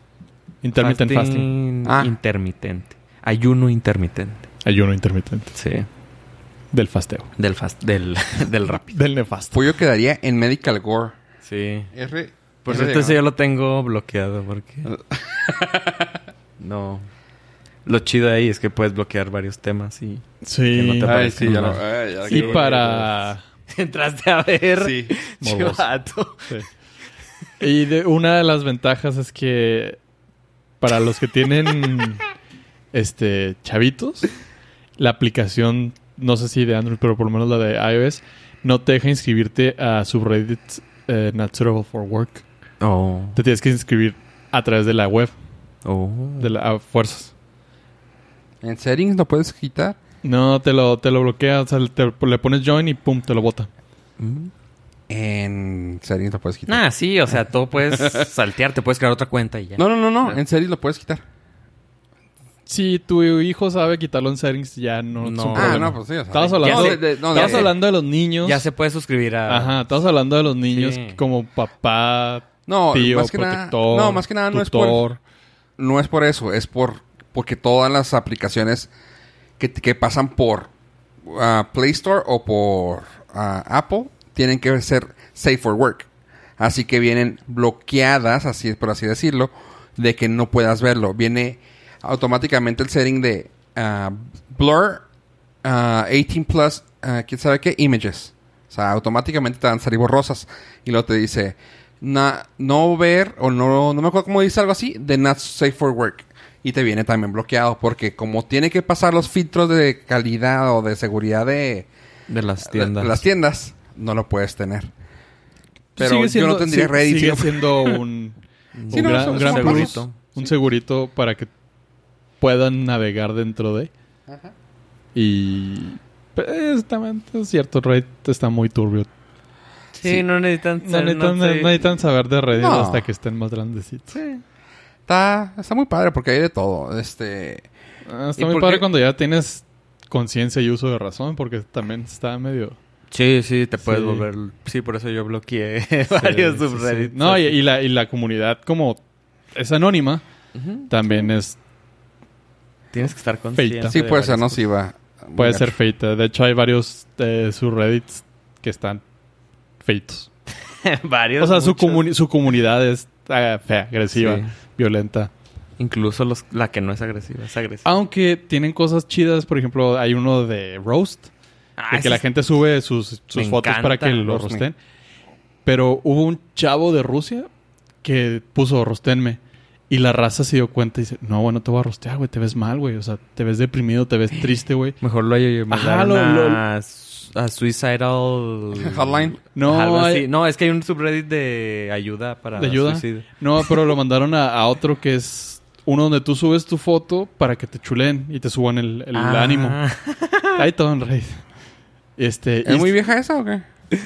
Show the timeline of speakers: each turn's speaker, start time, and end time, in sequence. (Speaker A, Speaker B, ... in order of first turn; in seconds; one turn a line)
Speaker A: 0.6-1.5
Speaker B: 0.8-4.5
Speaker C: 1.9-2.1
Speaker A: 4.7-5.5
Speaker B: 5.5-5.9
Speaker A: 6.7-7.3
Speaker B: 7.4-9.0
Speaker A: 8.8-9.7
Speaker C: 9.5-11.2
Speaker B: 11.4-11.9
Speaker C: 11.9-13.2
Speaker B: 12.6-14.9
Speaker C: 14.9-16.2
Speaker B: 16.6-17.1
Speaker B: 17.9-23.1
Speaker A: 20.4-21.7
Speaker C: 21.0-23.0
Speaker A: 22.3-23.4
Speaker B: 23.7-26.5
Speaker C: 24.8-25.2
Speaker A: 25.4-25.9
Speaker A: 27.6-30.0
Speaker A: 30.8-32.2
Speaker A: 32.9-34.3
Speaker A: 35.0-42.4
Speaker B: 42.8-43.4
Speaker A: 43.4-45.4
Speaker B: 45.9-46.5
Speaker A: 46.4-47.3
Speaker C: 48.6-50.0
Speaker A: 50.2-53.7
Speaker B: 54.2-54.5
Speaker C: 55.1-56.8
Speaker B: 56.7-60.4
Speaker C: 57.9-58.3
Speaker C: 59.8-61.2
Speaker A: 62.7-68.7
Speaker B: 65.2-65.9
Speaker C: 65.5-67.7
Speaker B: 66.6-67.8
Speaker B: 68.4-69.8
Speaker A: 69.5-75.2
Speaker B: 70.7-71.2
Speaker C: 72.7-75.0
Speaker C: 75.8-78.9
Speaker C: 79.6-80.7
Speaker C: 81.2-86.1
Speaker C: 86.6-95.0
Speaker C: 95.6-111.9
Speaker B: 112.3-113.2
Speaker C: 112.6-114.9
Speaker A: 116.0-118.4
Speaker C: 116.0-118.0
Speaker B: 118.8-120.2
Speaker A: 118.9-121.5
Speaker C: 118.9-120.5
Speaker A: 122.4-123.9
Speaker A: 125.2-129.1
Speaker B: 130.0-131.8
Speaker A: 130.8-134.1
Speaker C: 132.5-133.1
Speaker B: 134.1-134.4
Speaker C: 135.1-137.7
Speaker A: 138.1-142.8
Speaker B: 138.4-138.9
Speaker B: 143.1-147.6
Speaker A: 143.8-144.3
Speaker A: 146.1-149.0
Speaker A: 149.6-150.2
Speaker B: 150.5-151.3
Speaker A: 150.9-151.6
Speaker B: 152.9-154.6
Speaker A: 153.6-153.9
Speaker C: 153.9-155.8
Speaker A: 155.4-159.0
Speaker A: 159.8-160.3
Speaker B: 160.7-162.1
Speaker A: 161.4-165.3
Speaker B: 164.1-164.5
Speaker B: 165.8-167.9
Speaker A: 167.8-171.3
Speaker B: 171.8-172.2
Speaker A: 171.9-174.8
Speaker B: 173.3-174.7
Speaker A: 175.7-177.5
Speaker A: 178.0-185.0
Speaker B: 185.0-193.8
Speaker A: 185.7-186.6
Speaker C: 188.8-189.4
Speaker A: 189.6-190.3
Speaker A: 192.6-199.8
Speaker B: 199.1-200.7
Speaker A: 200.6-201.4
Speaker A: 202.2-202.9
Speaker C: 202.6-203.7